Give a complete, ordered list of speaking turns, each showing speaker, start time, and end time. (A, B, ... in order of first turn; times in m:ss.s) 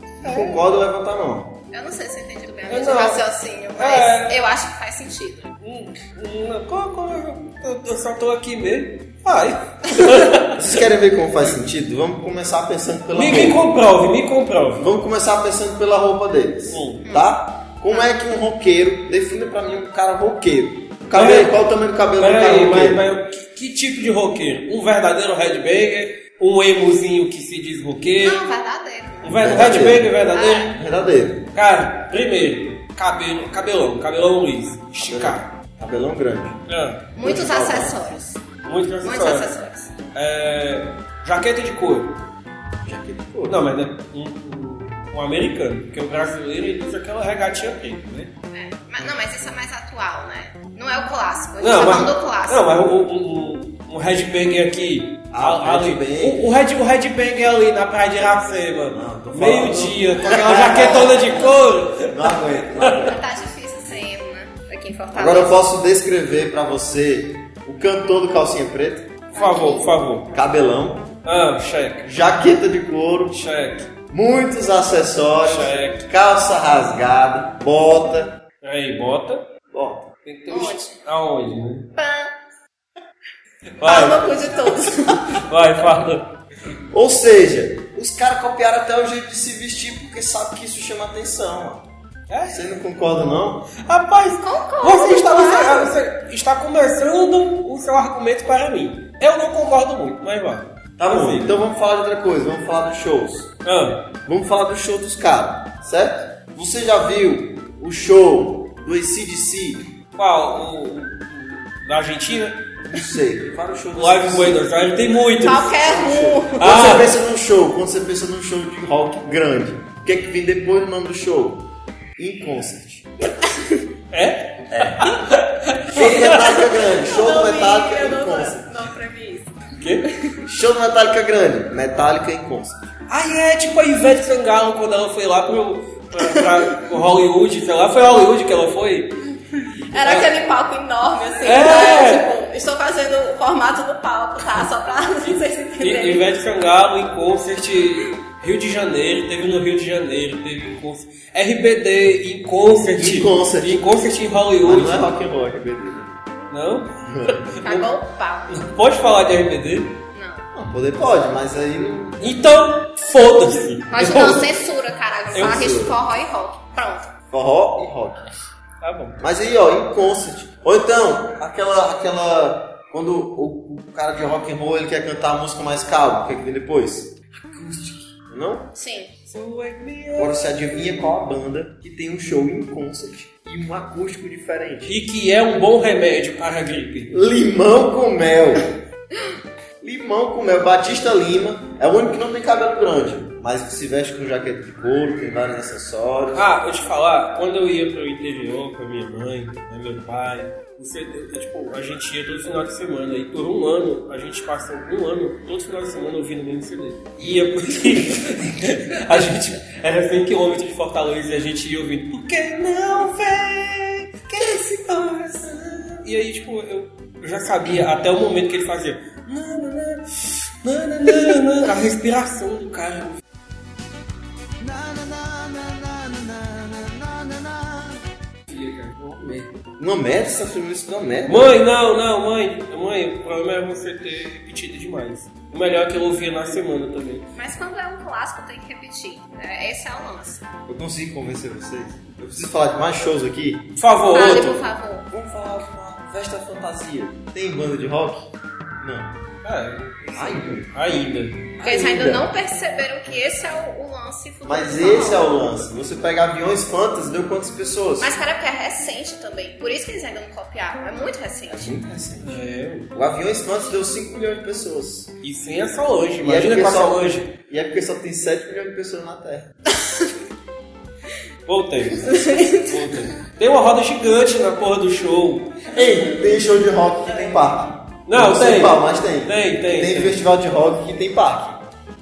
0:00.2-0:00.6 A
0:00.2-0:01.6 B
0:01.7-0:05.5 C
0:02.7-0:03.2 A
0:03.8-0:04.4 A
0:05.6-0:10.6 A
0:10.5-0:13.6 B
0:13.1-0:14.9 A
0:14.8-0:23.0 B
0:16.7-0:17.0 A
0:21.1-0:21.6 A
0:22.2-0:28.4 A
0:28.2-0:29.5 C
0:29.2-0:30.7 A
0:29.4-0:31.5 B
0:30.3-0:30.7 C
0:31.5-0:35.5 A
0:35.0-0:36.6 B
0:36.7-0:37.1 A
0:37.2-0:38.2 C
0:37.2-0:38.4 B
0:38.6-0:39.5 A
0:39.0-0:39.9 C
0:40.1-0:42.2 A
0:42.8-0:43.7 B
0:43.5-0:48.3 A
0:48.5-0:52.7 C
0:51.6-1:03.1 A
0:55.3-0:56.4 B
0:58.9-1:01.4 B
1:00.4-1:01.7 C
1:02.0-1:03.2 B
1:03.0-1:05.6 C
1:05.1-1:09.2 B
1:09.3-1:10.3 A
1:09.3-1:10.0 C
1:10.3-1:11.1 B
1:11.2-1:12.0 A
1:12.0-1:13.4 B
1:13.3-1:13.9 A
1:14.1-1:18.4 B
1:15.4-1:16.1 A
1:18.6-1:19.5 A
1:19.7-1:20.1 B
1:20.2-1:21.9 A
1:20.5-1:21.0 C
1:22.0-1:22.4 C
1:23.8-1:24.3 A
1:23.8-1:25.4 C
1:25.3-1:26.3 A
1:26.9-1:31.9 B
1:32.3-1:32.7 A
1:32.5-1:33.7 B
1:33.7-1:41.6 A
1:34.4-1:35.9 C
1:41.0-1:43.5 B
1:43.6-1:44.1 A
1:44.2-1:49.9 B
1:50.2-1:52.7 A
1:52.9-2:03.1 B
1:54.0-1:55.7 A
1:55.4-1:56.9 C
1:56.6-1:57.1 A
2:04.1-2:06.4 A
2:04.7-2:05.0 B
2:05.9-2:08.7 B
2:06.4-2:10.4 C
2:09.8-2:10.1 A
2:10.4-2:12.9 B
2:13.1-2:19.2 A
2:19.9-2:26.3 C
2:19.9-2:20.3 A
2:21.4-2:22.3 A
2:25.8-2:35.1 A
2:32.9-2:33.8 B
2:34.6-2:36.2 B
2:36.5-2:37.9 A
2:37.0-2:37.6 B
2:37.6-2:38.6 C
2:38.5-2:40.0 A
2:40.1-2:40.5 C
2:40.5-2:42.2 B
2:42.2-2:44.4 A
2:43.9-2:47.1 C
2:45.3-2:46.0 B
2:47.3-2:48.2 B
2:48.8-2:49.2 A
2:49.2-2:58.7 B
2:58.7-2:59.1 C
2:59.3-3:00.4 A
3:00.2-3:05.0 B
3:04.8-3:07.1 A
3:07.1-3:08.7 B
3:09.8-3:16.4 B
3:16.3-3:43.2 A
3:44.6-3:47.9 B
3:48.5-3:49.6 A
3:49.8-3:51.5 B
3:51.2-3:57.3 A
3:57.4-4:00.4 C
4:00.7-4:03.7 B
4:03.8-4:04.6 A
4:04.1-4:05.1 C
4:05.1-4:09.2 B
4:09.4-4:11.4 A
4:10.1-4:10.7 B
4:11.6-4:12.3 B
4:11.6-4:15.4 C
4:14.4-4:18.2 B
4:18.0-4:21.8 C
4:21.5-4:25.1 B
4:22.2-4:22.9 A
4:25.2-4:27.3 A
4:26.2-4:29.5 B
4:31.5-4:35.6 A
4:32.0-4:32.8 C
4:35.7-4:41.7 B
4:38.1-4:40.2 A